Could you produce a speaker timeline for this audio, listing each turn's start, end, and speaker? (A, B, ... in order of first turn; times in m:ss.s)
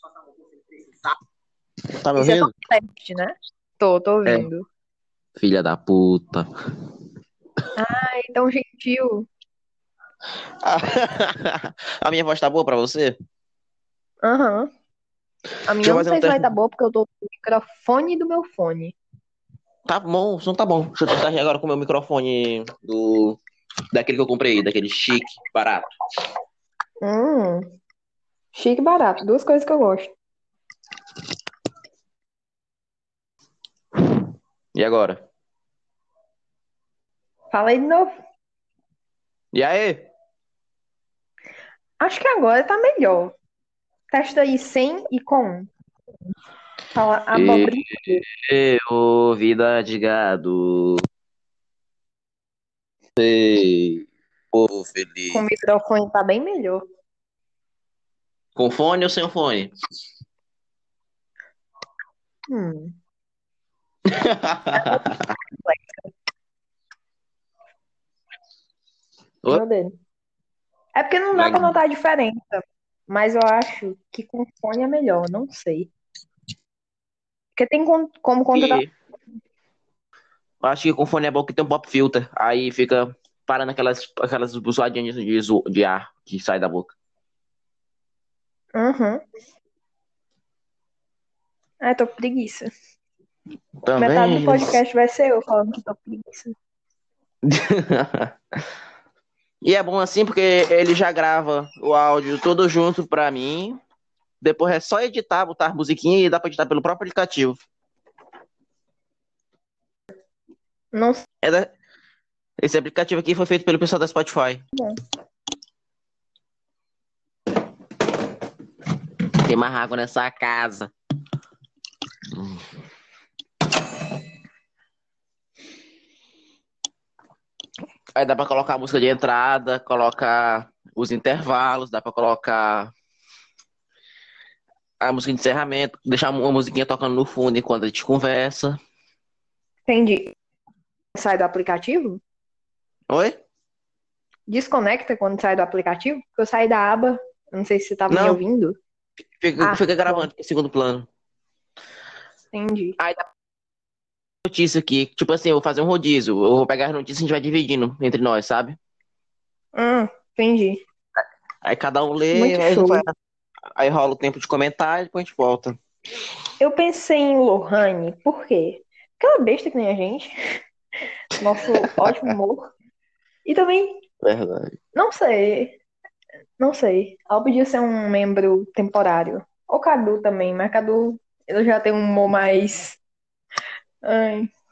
0:02.0-0:02.5 A
0:02.2-0:04.7 B
0:05.4-0:06.5 A
0:07.8-0:09.3 B
0:10.6-0:13.2 A
0:14.2-0:14.7 B
0:15.7-0:19.0 B
0:15.8-0:16.5 A
0:19.9-0:23.4 A
0:23.9-0:25.9 A
0:27.0-0:27.7 B
0:28.5-0:30.1 B
0:34.8-0:35.2 A
0:37.5-0:38.1 B
0:39.5-0:40.1 A
0:42.0-0:43.4 B
0:44.1-0:45.7 B
0:46.9-0:48.2 B
0:47.3-0:51.0 A
0:53.2-0:55.4 A
0:55.3-0:56.8 B
0:58.6-0:59.7 A
1:02.5-1:03.0 B
1:04.1-1:05.2 A
1:04.8-1:05.0 B
1:05.6-1:05.9 B
1:09.5-1:10.0 B
1:11.0-1:15.9 B
1:11.3-1:11.8 A
1:17.6-1:18.8 B
1:18.5-1:18.9 A
1:20.6-1:26.9 A
1:28.7-1:29.2 B
1:31.8-1:32.7 B
1:33.8-1:34.8 A
1:34.0-1:36.6 B
1:37.4-1:38.3 A
1:39.6-1:43.8 A
1:44.4-1:47.6 A
1:50.9-1:51.2 B
1:51.4-1:51.7 A
1:52.6-1:54.6 A
1:59.4-2:00.9 A
2:02.3-2:02.6 A
2:08.2-2:12.9 A
2:15.0-2:18.8 A
2:19.9-2:20.3 B
2:21.2-2:22.2 B
2:23.1-2:23.4 A
2:24.5-2:28.8 B
2:28.1-2:28.4 A
2:29.4-2:31.1 A
2:29.6-2:30.3 B
2:32.5-2:33.0 B
2:34.5-2:38.8 A
2:39.8-2:40.8 B
2:41.6-2:43.1 A
2:42.3-2:43.0 B
2:43.8-2:45.8 A
2:46.6-2:50.4 B
2:51.4-2:52.7 B
2:52.0-2:52.3 A
2:53.4-2:54.0 B
2:54.2-2:54.8 A
2:55.0-2:55.8 B
2:56.6-3:03.0 B
3:04.0-3:04.5 B